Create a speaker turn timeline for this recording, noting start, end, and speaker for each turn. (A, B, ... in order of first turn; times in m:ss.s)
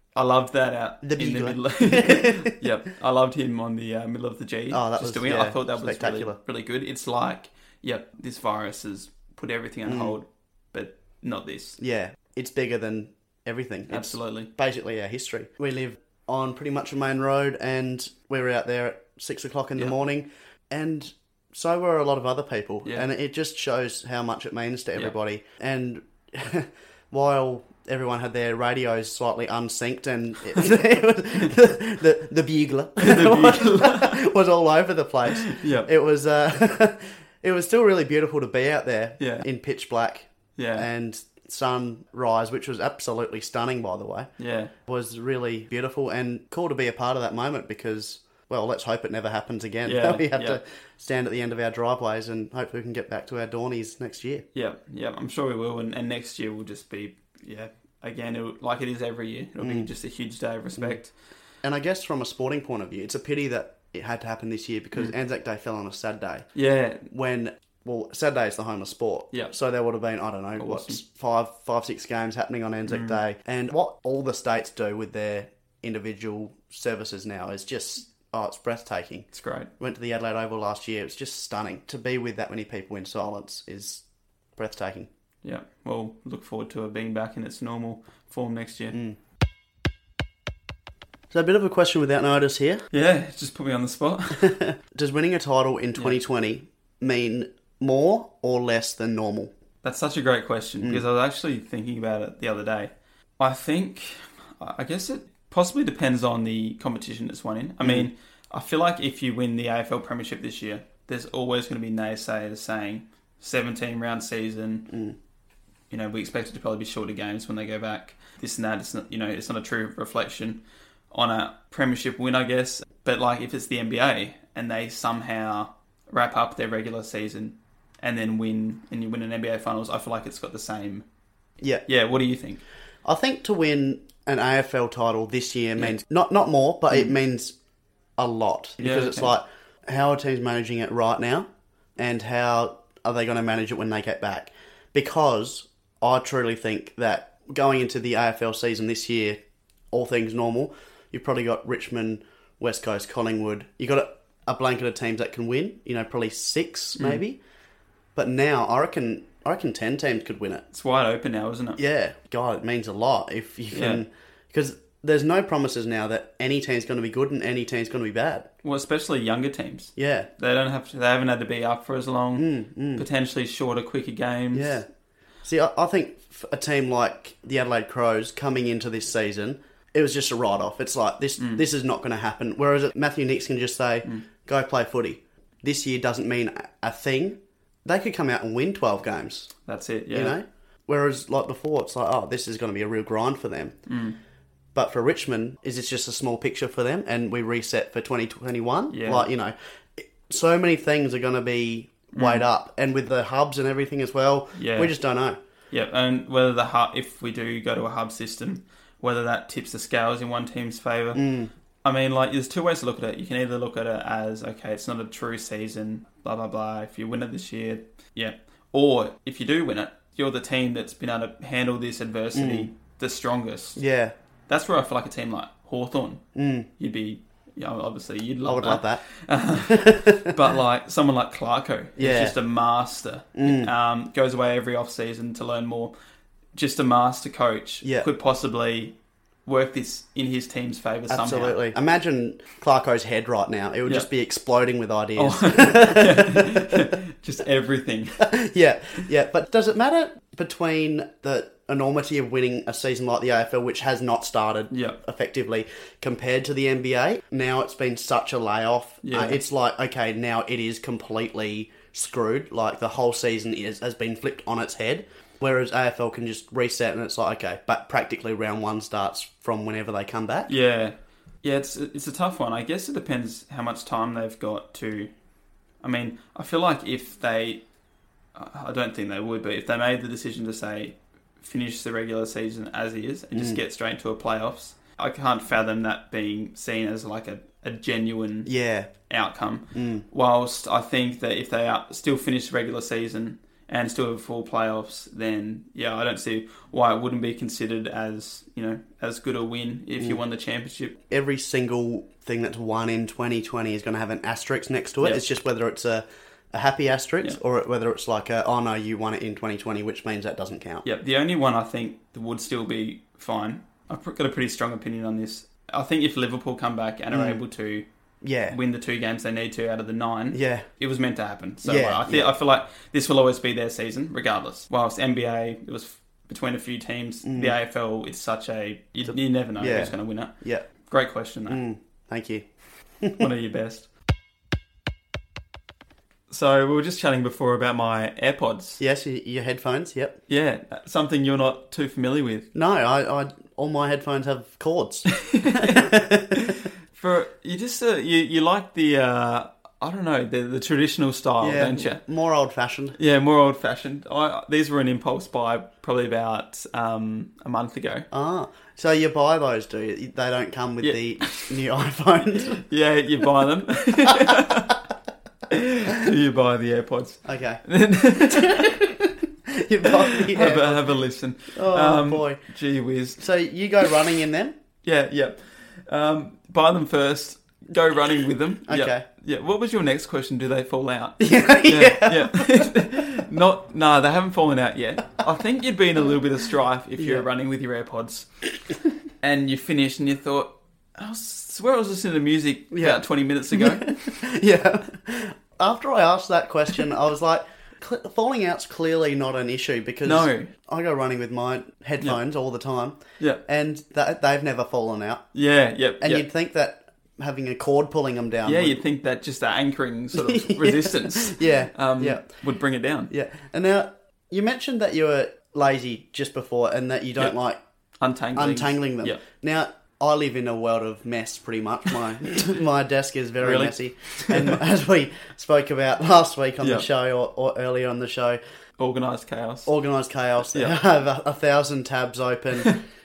0:00.2-0:11.8 A
0:01.0-0:02.6 B
0:04.7-0:06.4 B
0:09.9-0:10.2 B
0:11.8-0:44.3 B
0:13.9-0:14.5 A
0:33.0-0:34.3 A
0:35.3-0:35.9 A
0:39.2-0:39.5 A
0:40.6-0:40.9 A
0:44.4-0:44.7 A
0:44.9-0:54.4 B
0:49.8-0:50.6 A
0:54.6-1:01.1 A
0:59.6-0:59.9 B
1:01.6-1:06.5 B
1:06.6-1:07.0 A
1:07.1-1:19.3 B
1:10.6-1:11.0 A
1:12.9-1:13.2 A
1:19.3-1:19.7 A
1:19.8-1:24.0 B
1:24.6-1:25.1 B
1:25.4-1:29.0 A
1:28.9-1:29.2 B
1:31.3-1:32.8 B
1:32.9-1:34.6 A
1:34.4-1:39.5 B
1:39.8-1:55.0 A
1:47.8-1:48.1 B
1:55.9-2:11.0 A
2:11.9-2:12.6 A
2:13.0-2:17.6 B
2:18.2-2:21.5 B
2:18.8-2:19.3 A
2:22.0-2:29.4 B
2:29.9-2:37.4 B
2:37.0-2:37.2 A
2:38.2-2:40.6 B
2:40.7-2:41.8 A
2:41.8-2:48.5 B
2:43.7-2:44.0 A
2:48.6-2:54.8 A
2:50.0-2:50.3 B
2:52.4-2:53.1 B
2:54.5-2:54.9 B
2:55.4-3:09.5 B
3:01.4-3:01.6 A
3:09.7-3:10.4 A
3:10.1-3:13.8 B
3:13.9-3:14.2 A
3:14.8-3:25.4 B
3:18.9-3:19.3 A
3:22.2-3:22.4 A
3:24.6-3:24.9 A
3:25.7-3:31.2 A
3:31.1-3:31.5 B
3:31.8-3:43.8 A
3:42.3-3:42.7 B
3:43.8-3:44.1 B
3:44.5-3:46.2 A
3:46.4-3:46.7 B
3:46.8-3:55.9 A
3:48.5-3:49.0 B
3:49.7-3:50.3 B
3:52.0-3:52.4 B
3:53.4-3:53.7 B
3:56.6-4:01.6 A
3:57.8-3:58.1 B
4:01.1-4:06.8 B
4:05.2-4:08.3 A
4:08.2-4:30.5 B
4:14.7-4:15.0 A
4:19.0-4:19.4 A
4:30.5-4:35.1 A
4:35.8-4:37.6 A
4:38.4-4:48.5 A
4:43.4-4:43.6 B
4:48.5-4:48.9 B
4:49.1-5:01.0 A
4:49.8-4:50.0 B
5:01.1-5:10.9 B
5:10.8-5:17.9 A
5:17.1-5:17.4 B
5:18.2-5:18.6 B
5:18.5-5:30.3 A
5:20.3-5:20.7 B
5:21.6-5:22.3 B
5:27.2-5:27.6 B
5:29.6-5:30.6 B
5:30.9-5:31.6 A
5:31.5-5:32.4 B
5:33.0-5:33.3 B
5:33.2-5:33.9 A
5:36.3-5:38.8 A
5:38.8-5:40.2 B
5:40.3-5:42.5 A
5:42.5-5:46.5 B
5:45.1-5:52.0 A
5:51.4-5:53.0 B
5:53.0-5:58.1 A
5:58.1-6:02.6 B
6:00.8-6:01.6 A
6:02.5-6:04.8 A
6:05.5-6:08.8 A
6:07.2-6:07.6 B
6:08.2-6:10.9 B
6:10.1-6:13.2 A
6:11.5-6:12.4 B
6:13.2-6:14.6 B
6:14.8-6:28.3 A
6:18.7-6:19.0 B
6:21.2-6:22.6 B
6:27.0-6:27.3 B
6:29.2-6:34.1 A
6:32.7-6:45.2 B
6:40.0-6:40.5 A
6:45.3-6:46.2 A
6:46.0-6:48.8 B
6:48.4-6:53.1 A
6:50.2-6:52.2 B
6:53.1-6:57.6 B
6:58.0-6:59.2 A
6:58.4-7:08.4 B
7:03.4-7:04.6 A
7:06.6-7:06.9 A
7:08.8-7:09.7 A
7:09.7-7:12.8 B